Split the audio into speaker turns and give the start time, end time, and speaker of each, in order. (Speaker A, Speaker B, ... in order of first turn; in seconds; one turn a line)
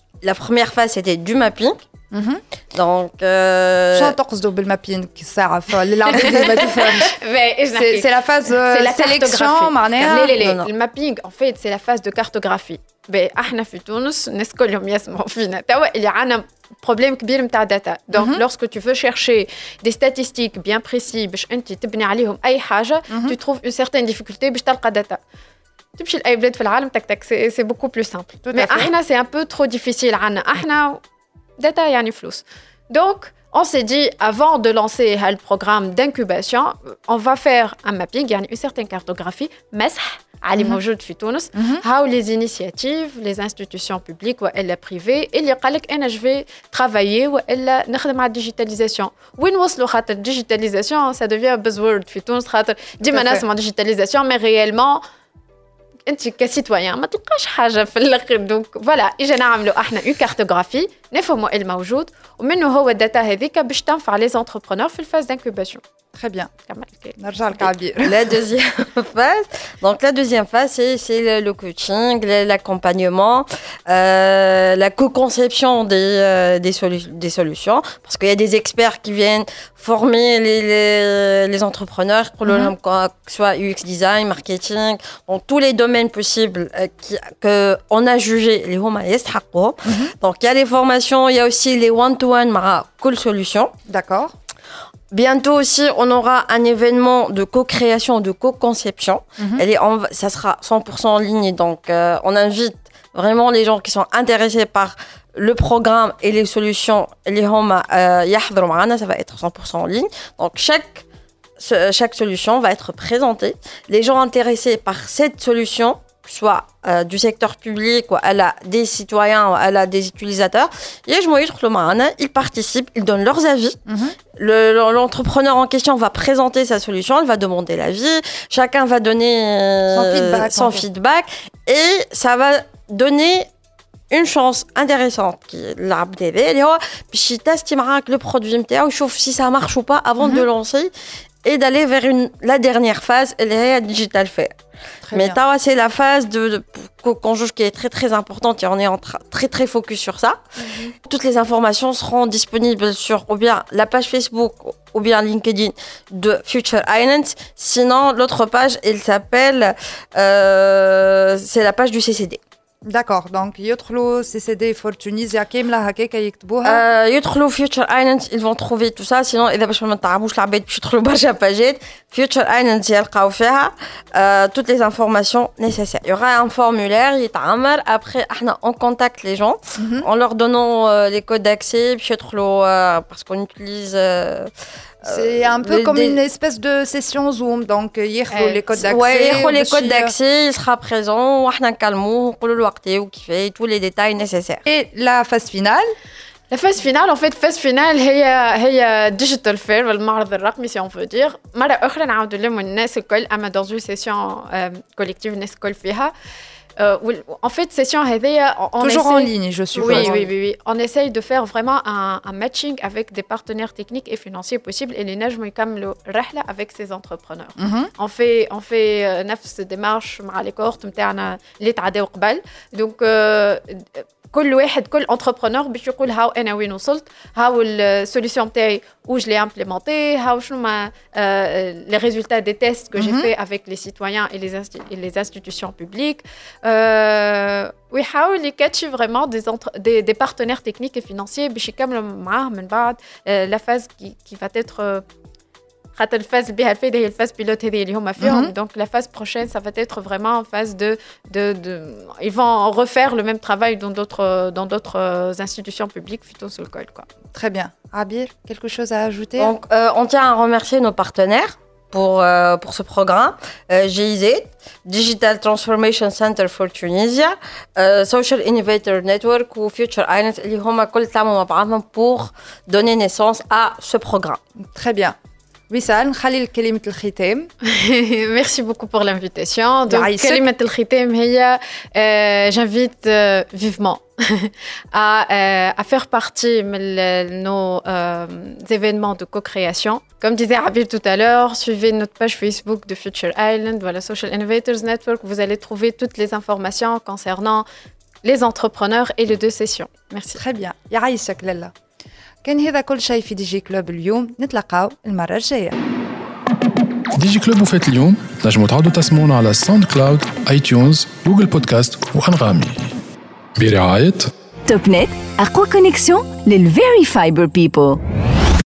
Speaker A: 0.2-1.8
Speaker B: 2.1-2.4
Speaker A: 2.7-4.2
Speaker B: 3.9-7.2
Speaker C: 6.0-25.2
Speaker B: 7.7-10.3
Speaker A: 10.1-10.7
Speaker B: 18.1-18.4
Speaker B: 23.1-23.4
Speaker C: 26.0-31.0
Speaker B: 28.4-28.9
Speaker C: 31.6-55.0
Speaker B: 41.5-41.8
Speaker B: 53.1-53.4
Speaker C: 56.1-65.8
Speaker B: 66.2-66.5
Speaker C: 66.7-67.2
Speaker B: 67.2-68.2
Speaker A: 68.0-93.7
Speaker B: 89.9-90.1
Speaker B: 93.9-94.3
Speaker A: 95.1-111.0
Speaker A: 111.6-123.8
Speaker B: 123.9-124.2
Speaker A: 124.4-133.5
Speaker B: 129.9-130.8
Speaker A: 134.1-140.9
Speaker A: 141.4-144.6
Speaker B: 145.1-145.4
Speaker A: 145.1-150.4
Speaker C: 150.6-150.9
Speaker A: 151.1-162.4
Speaker B: 162.9-166.8
Speaker A: 166.6-184.5
Speaker B: 179.8-180.1
Speaker A: 185.0-186.2
Speaker B: 185.0-190.1
Speaker C: 188.3-188.6
Speaker A: 188.7-194.7
Speaker B: 194.7-195.9
Speaker C: 196.5-206.1
Speaker C: 206.8-245.0
Speaker B: 208.8-210.3
Speaker B: 217.6-217.9
Speaker B: 232.9-233.3
Speaker C: 245.9-257.1
Speaker B: 248.2-248.5
Speaker B: 257.3-259.5
Speaker A: 259.4-274.4
Speaker B: 274.7-275.1
Speaker B: 275.7-277.5
Speaker C: 277.7-297.7
Speaker B: 279.9-280.5
Speaker C: 298.2-300.4
Speaker B: 300.4-301.7
Speaker B: 302.4-305.8
Speaker D: 307.1-312.9
Speaker D: 313.6-314.3
Speaker E: 314.7-318.0